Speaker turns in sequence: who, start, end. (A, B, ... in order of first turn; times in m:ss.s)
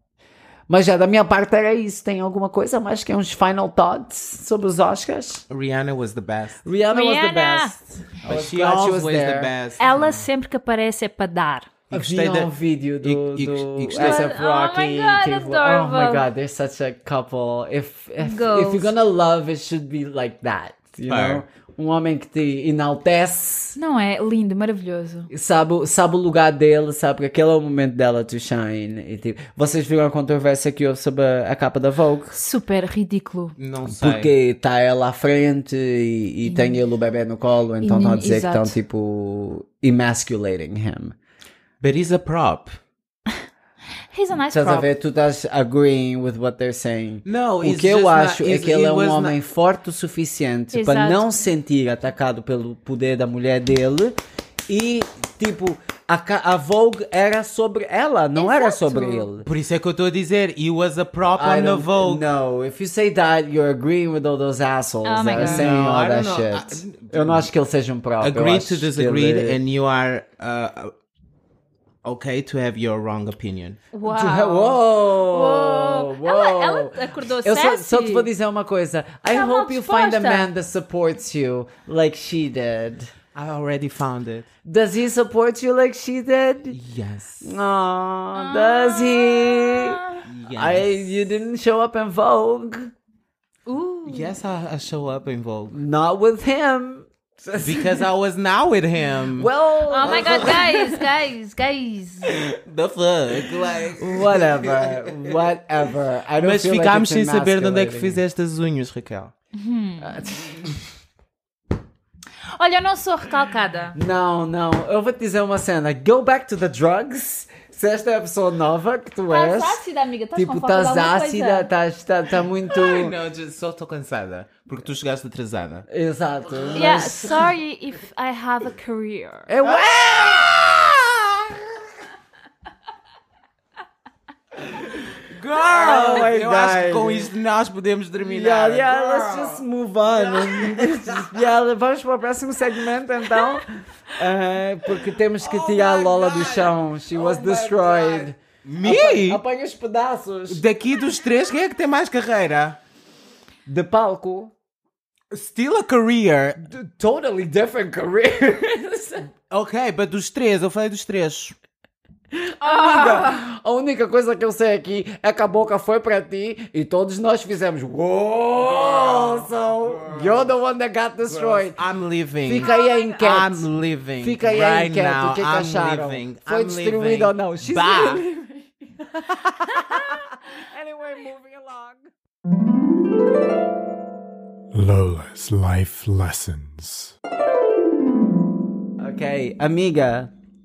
0:00.7-0:05.4 A
0:05.5-0:06.6 B
0:06.6-0:09.5 A
0:06.9-0:07.7 C
0:08.2-0:10.3 B
0:09.8-0:11.7 C
0:11.9-0:12.5 B
0:11.9-0:23.8 A
0:13.0-0:14.3 B
0:13.9-0:16.2 C
0:18.2-0:18.9 C
0:21.1-0:21.4 B
0:23.8-0:25.3 C
0:25.3-0:32.4 A
0:32.3-0:33.6 C
0:33.6-0:34.3 B
0:33.9-0:41.1 A
0:36.4-0:36.8 C
0:37.8-0:38.7 C
0:41.8-0:42.8 B
0:44.1-0:44.9 C
0:44.5-0:59.5 A
0:47.2-0:49.4 B
0:50.7-0:51.3 C
0:58.4-0:59.3 C
0:59.4-1:02.3 B
1:01.4-1:09.6 A
1:05.0-1:05.7 C
1:05.3-1:07.5 B
1:08.2-1:10.9 B
1:12.0-1:13.8 B
1:13.9-1:18.3 C
1:14.0-1:23.1 A
1:19.3-1:20.5 C
1:23.3-1:24.5 B
1:24.6-1:26.8 A
1:26.7-1:27.5 B
1:27.4-1:30.0 A
1:28.3-1:30.2 C
1:30.2-1:31.3 B
1:30.5-1:32.9 A
1:33.6-1:34.4 C
1:34.0-1:35.7 B
1:35.7-1:38.0 A
1:37.6-1:40.8 B
1:39.4-1:40.9 A
1:39.9-1:42.3 C
1:42.5-1:45.4 B
1:43.7-1:48.2 A
1:46.4-1:49.3 B
1:49.5-1:50.3 C
1:50.0-1:50.6 A
1:52.6-1:54.0 C
1:53.9-1:59.8 A
1:59.3-2:01.7 C
2:00.3-2:03.1 A
2:02.7-2:05.8 B
2:05.9-2:07.4 A
2:06.5-2:06.9 B
2:06.7-2:09.5 C
2:09.5-2:11.2 A
2:09.6-2:10.5 B
2:15.3-2:21.5 B
2:15.6-2:17.3 A
2:18.2-2:30.6 A
2:23.4-2:23.6 C
2:25.4-2:29.4 B
2:30.5-2:32.8 B
2:33.7-2:34.5 A
2:35.3-2:36.6 B
2:36.6-2:39.3 A
2:39.5-2:41.6 B
2:42.3-2:51.8 A
2:42.6-2:43.4 C
2:48.6-2:50.4 B
2:51.3-2:58.2 B
2:52.4-2:53.7 A
2:54.2-3:02.1 A
3:04.8-3:07.1 B
3:09.0-3:10.3 A